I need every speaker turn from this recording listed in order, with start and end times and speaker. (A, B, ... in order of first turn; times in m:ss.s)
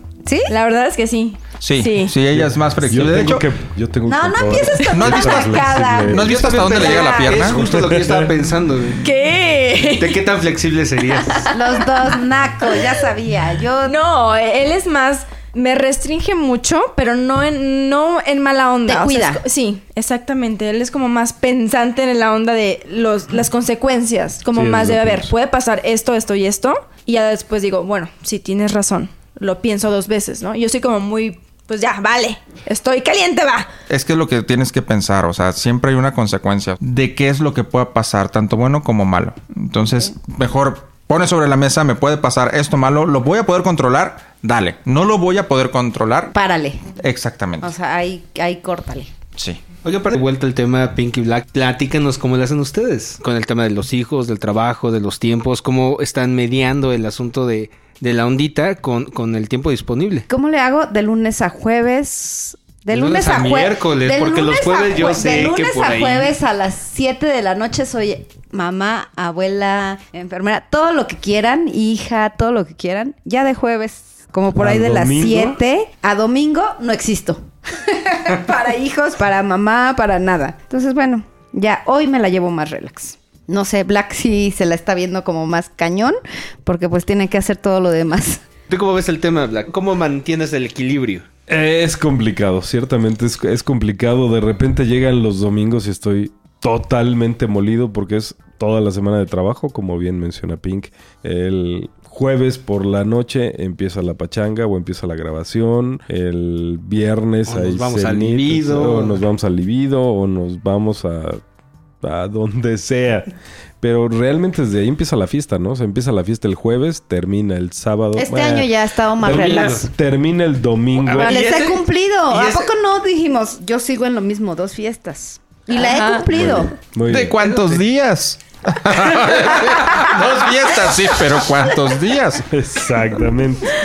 0:00.2-0:00.5 A
0:00.5-0:02.1 B
0:01.6-0:03.5 C
0:02.3-0:06.5 D
0:04.1-0:07.3 A
0:04.9-0:07.6 C
0:06.2-0:09.0 E
0:07.4-0:08.5 D
0:09.0-0:10.2 B
0:09.9-0:11.5 E
0:11.5-0:13.9 A
0:13.8-0:33.7 B
0:18.8-0:19.4 A
0:24.5-0:25.3 D
0:33.9-0:46.3 C
0:46.3-0:46.9 A
0:47.0-0:47.7 C
0:47.6-0:49.1 A
0:49.8-1:00.2 E
1:00.3-1:28.4 A
1:02.9-1:06.3 E
1:14.5-1:15.6 D
1:28.7-1:31.2 E
1:31.5-1:51.4 D
1:47.5-1:49.2 E
1:52.0-1:53.3 D
1:53.8-2:01.5 D
1:58.2-1:59.9 A
1:59.3-1:59.8 E
2:01.0-2:02.7 E
2:01.1-2:06.8 A
2:05.8-2:06.1 B
2:06.2-2:07.5 D
2:07.1-2:12.4 C
2:12.5-2:13.7 D